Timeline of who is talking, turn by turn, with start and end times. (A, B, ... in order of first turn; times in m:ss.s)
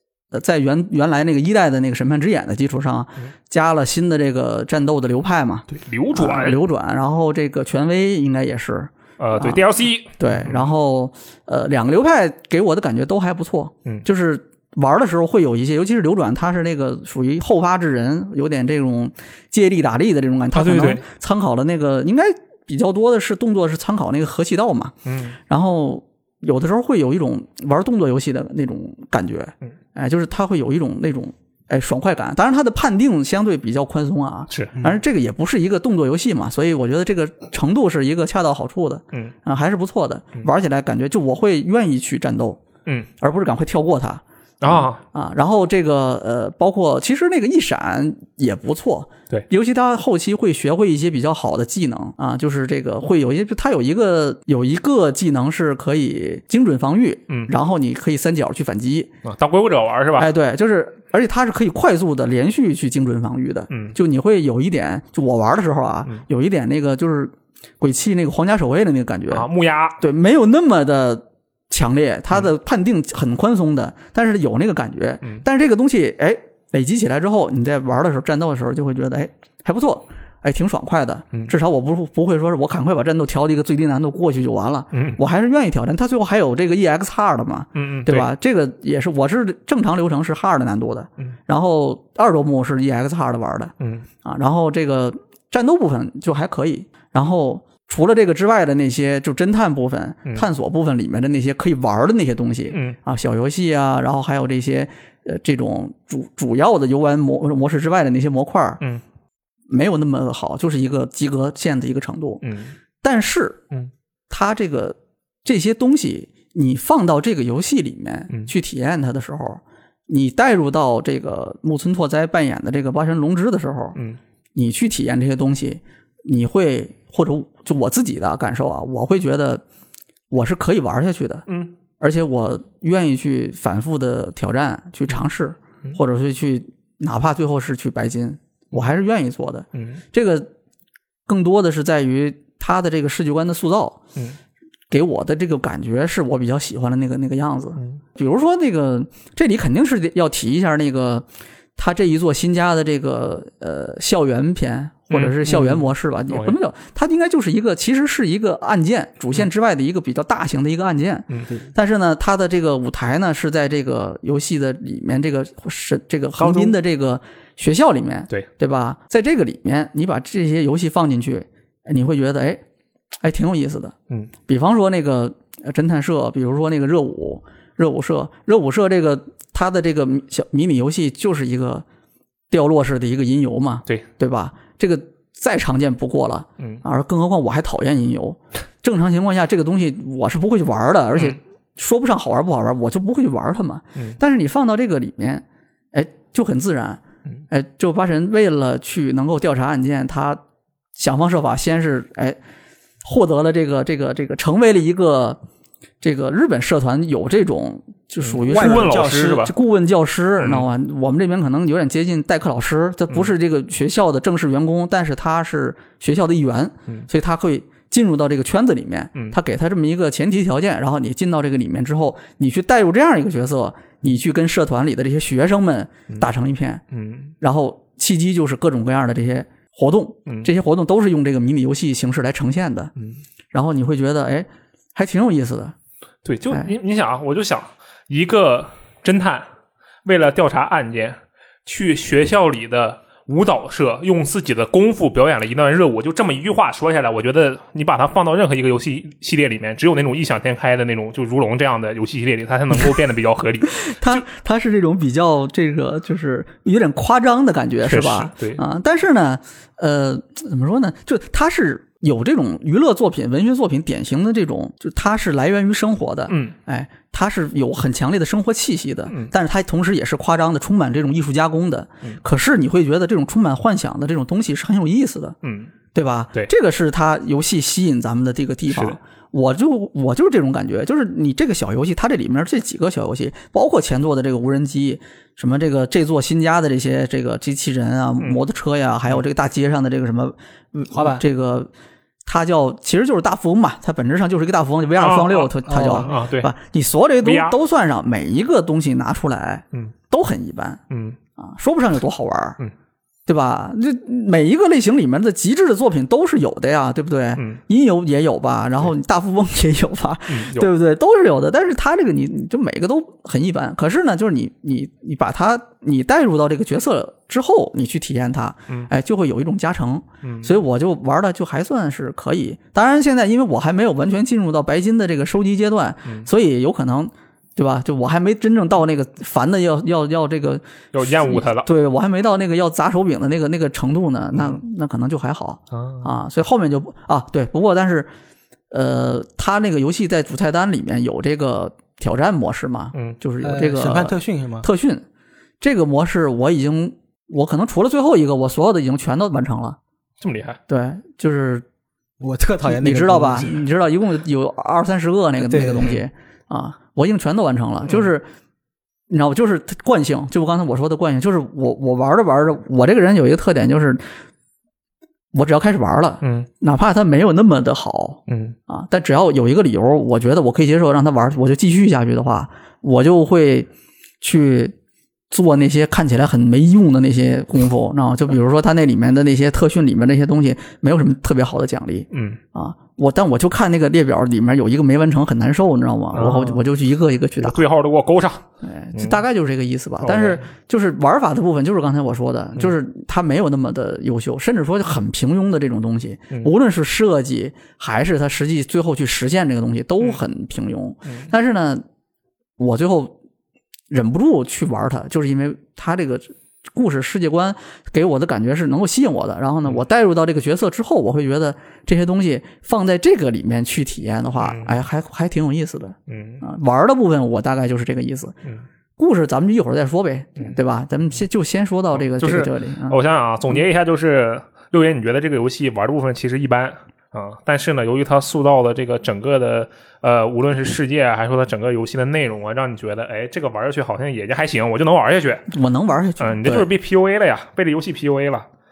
0:00.3-0:09.6 A
0:05.7-0:06.6 B
0:09.2-0:10.7 B
0:10.2-0:24.9 A
0:20.5-0:21.0 B
0:25.1-0:25.4 B
0:25.5-0:42.6 A
0:34.5-0:34.8 B
0:43.2-0:59.1 A
0:44.6-0:45.0 B
0:59.2-1:00.3 B
1:00.2-1:09.5 A
1:03.7-1:04.0 B
1:09.3-1:10.0 B
1:10.0-1:33.7 A
1:24.9-1:25.2 B
1:27.8-1:28.3 B
1:33.8-1:34.1 B
1:34.2-1:48.8 A
1:42.7-1:43.0 B
1:49.7-1:52.4 A
1:52.4-1:52.8 B
1:53.0-1:53.6 A
1:54.3-2:04.0 A
2:04.6-2:09.6 A
2:10.3-2:11.5 A
2:11.5-2:11.7 B
2:12.0-2:20.5 A
2:19.7-2:20.0 B
2:21.3-2:24.0 A
2:24.9-2:52.6 A
2:35.1-2:36.6 B
2:46.4-2:46.7 C
2:53.2-2:53.9 A
2:54.5-3:01.8 A
3:02.5-3:20.4 A
3:06.6-3:06.8 B
3:21.0-3:22.4 A
3:23.0-3:25.4 A
3:26.0-3:46.8 A
3:28.2-3:29.5 B
3:28.5-3:29.5 C
3:30.4-3:30.7 B
3:46.9-3:47.3 B
3:47.4-3:52.9 A
3:53.5-3:55.7 A
3:56.2-3:59.5 B
4:00.0-4:14.2 B
4:13.8-4:35.4 A
4:17.9-4:18.6 B
4:26.3-4:26.6 B
4:35.4-4:35.7 B
4:35.9-4:51.7 A
4:38.7-4:39.0 B
4:50.9-4:51.2 C
4:52.2-5:00.8 A
4:55.0-4:56.5 B
4:55.7-4:56.1 C
4:57.2-4:57.6 B
5:00.9-5:01.2 B
5:01.4-5:02.6 A
5:03.3-5:38.1 A
5:07.4-5:07.6 B
5:10.3-5:10.7 B
5:20.2-5:20.5 B
5:30.9-5:31.7 B
5:35.7-5:36.1 B
5:38.7-5:45.0 A
5:43.4-5:44.7 C
5:45.6-5:49.8 A
5:50.2-5:50.6 B
5:50.7-5:51.6 A
5:52.2-5:53.5 C
5:52.7-5:58.3 A
5:55.4-5:56.0 C
5:59.1-6:04.0 A
6:05.3-6:13.7 A
6:06.2-6:06.5 B
6:08.3-6:08.6 B
6:14.2-6:14.7 A
6:15.3-6:27.6 A
6:22.1-6:22.4 B
6:26.1-6:26.7 B
6:27.4-6:29.2 B
6:28.6-6:41.8 A
6:30.0-6:30.4 B
6:41.1-6:41.3 B
6:42.6-6:43.2 A
6:43.9-6:58.4 A
6:54.4-6:54.8 B
6:56.1-6:56.4 B
6:59.0-7:03.0 A
7:01.9-7:15.5 B
7:15.5-7:16.7 A
7:16.2-7:18.5 B